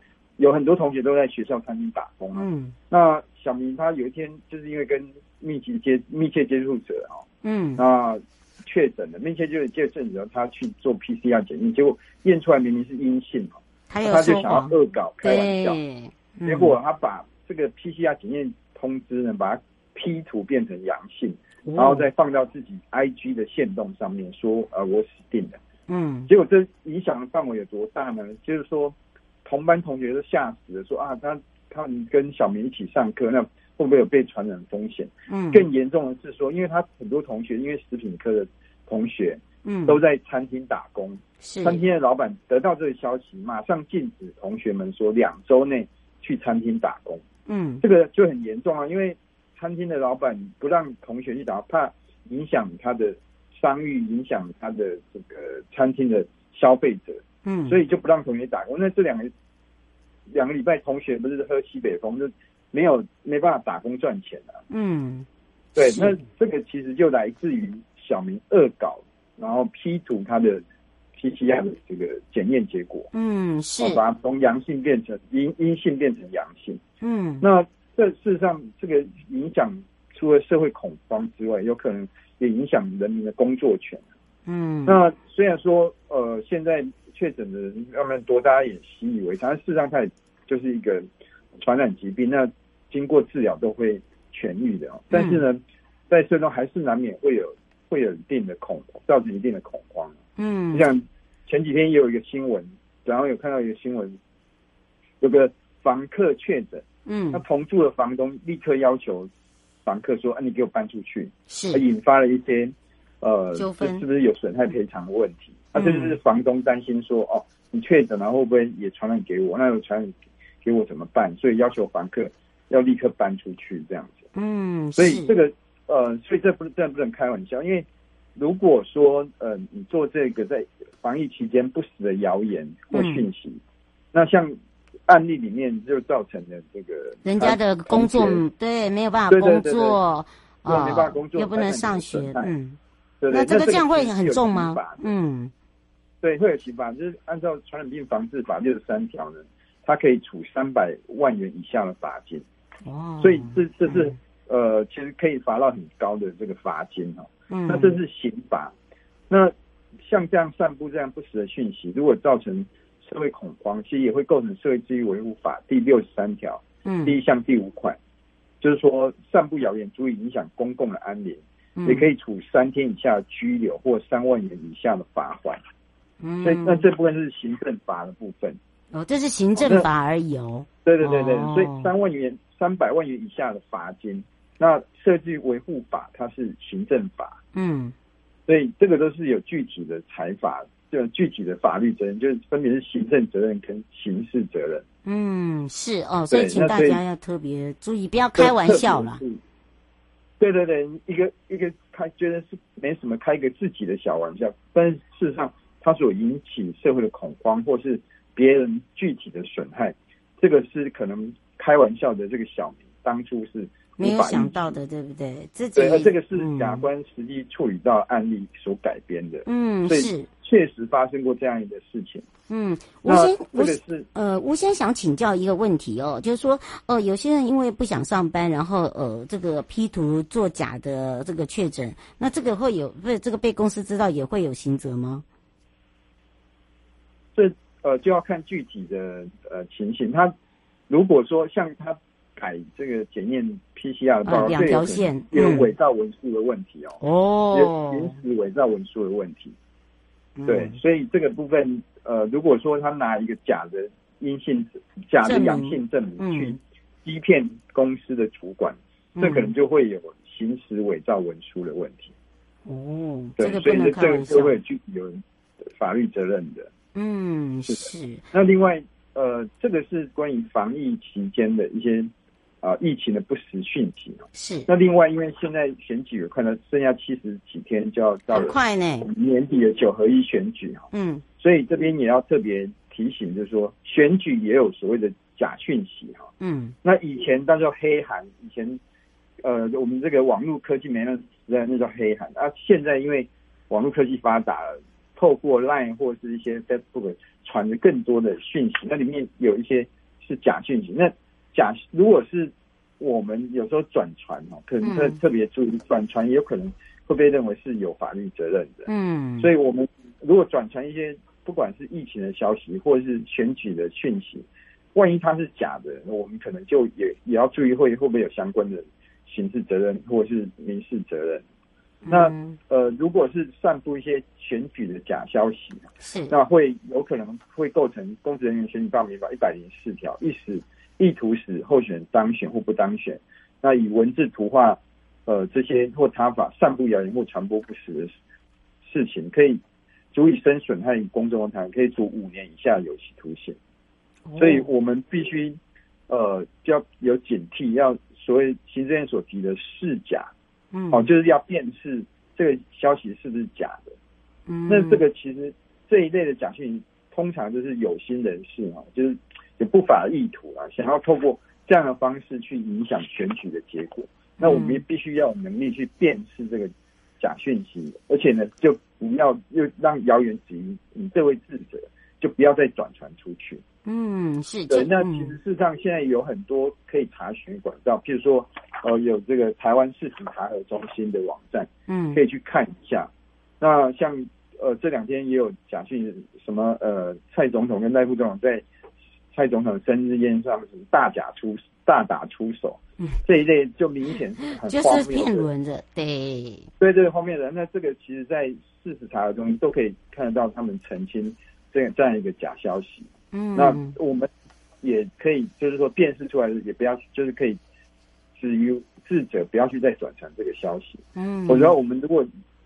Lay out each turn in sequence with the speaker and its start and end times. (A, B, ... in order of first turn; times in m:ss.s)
0:00.4-0:07.2 A
0:02.4-0:02.7 B
0:07.4-0:07.8 B
0:07.8-0:15.8 A
0:13.9-0:16.7 B
0:16.4-0:25.6 A
0:21.7-0:22.1 B
0:25.9-0:26.3 B
0:26.3-0:47.2 A
0:35.3-0:35.6 B
0:39.6-0:40.0 B
0:41.4-0:41.8 B
0:47.5-0:47.8 B
0:47.8-0:59.3 A
0:57.4-0:57.8 B
1:00.3-1:04.6 A
1:04.7-1:05.2 B
1:05.8-1:10.6 A
1:05.8-1:06.2 B
1:11.2-1:13.1 A
1:13.1-1:14.0 B
1:13.8-1:16.8 A
1:17.0-1:17.4 B
1:17.4-1:24.0 A
1:24.5-1:25.0 B
1:24.8-1:31.1 A
1:31.6-1:40.1 A
1:35.1-1:35.4 B
1:40.4-1:40.8 B
1:40.7-1:44.2 A
1:45.2-1:49.3 A
1:47.1-1:47.4 B
1:49.8-2:04.2 A
1:51.5-1:51.8 B
1:53.6-1:54.0 B
1:55.7-1:56.2 B
2:04.4-2:05.3 B
2:05.0-2:13.6 A
2:12.9-2:13.2 B
2:14.1-2:14.6 A
2:15.1-2:18.4 A
2:17.2-2:22.8 B
2:19.3-2:20.0 A
2:20.6-2:22.5 A
2:23.2-2:25.0 A
2:23.3-2:25.5 B
2:26.2-2:32.4 A
2:32.8-2:34.1 B
2:33.2-2:38.7 A
2:37.5-2:37.9 B
2:40.0-2:48.0 A
2:46.8-2:47.1 B
2:48.6-2:55.6 A
2:51.8-2:52.1 B
2:56.2-2:56.8 B
2:56.4-2:58.6 A
2:58.9-3:01.9 B
2:59.6-2:59.9 A
3:00.8-3:07.4 A
3:07.5-3:07.9 B
3:08.5-3:14.8 A
3:15.0-3:19.2 B
3:16.3-3:17.0 A
3:18.4-3:19.4 A
3:20.4-3:34.8 A
3:34.0-3:36.8 B
3:35.8-3:42.2 A
3:39.4-3:40.3 B
3:42.5-3:55.2 B
3:43.0-3:44.1 A
3:57.3-4:00.3 A
4:00.9-4:07.0 A
4:04.2-4:05.7 B
4:07.0-4:08.2 B
4:07.5-4:09.5 A
4:10.4-4:10.8 B
4:10.5-4:22.1 A
4:15.2-4:16.6 B
4:19.2-4:19.5 B
4:22.6-4:24.5 B
4:23.4-4:25.2 A
4:25.8-4:26.7 A
4:26.9-4:28.2 B
4:27.7-4:32.1 A
4:32.6-4:40.8 A
4:34.3-4:34.7 B
4:38.3-4:39.1 B
4:40.9-4:41.2 B
4:41.4-4:46.3 A
4:46.4-4:46.7 B
4:46.8-4:48.8 A
4:49.4-5:08.9 A
5:04.8-5:05.2 B
5:08.8-5:09.5 B
5:09.4-5:21.4 A
5:22.0-5:22.6 B
5:22.1-5:38.2 A
5:26.0-5:26.3 B
5:38.8-5:39.6 A
5:40.1-5:43.6 A
5:44.3-5:44.6 B
5:44.4-5:45.6 A
5:46.1-5:50.3 A
5:50.7-5:51.1 B
5:50.9-5:54.0 A
5:54.5-5:55.0 B
5:54.7-6:13.6 A
6:04.4-6:04.8 B
6:13.8-6:15.4 B
6:14.7-6:28.6 A
6:21.9-6:22.2 B
6:29.3-6:35.5 A
6:34.6-6:36.7 B
6:36.8-6:44.3 A
6:43.3-6:43.9 B
6:44.8-6:47.6 A
6:48.3-6:52.3 A
6:51.2-6:51.7 B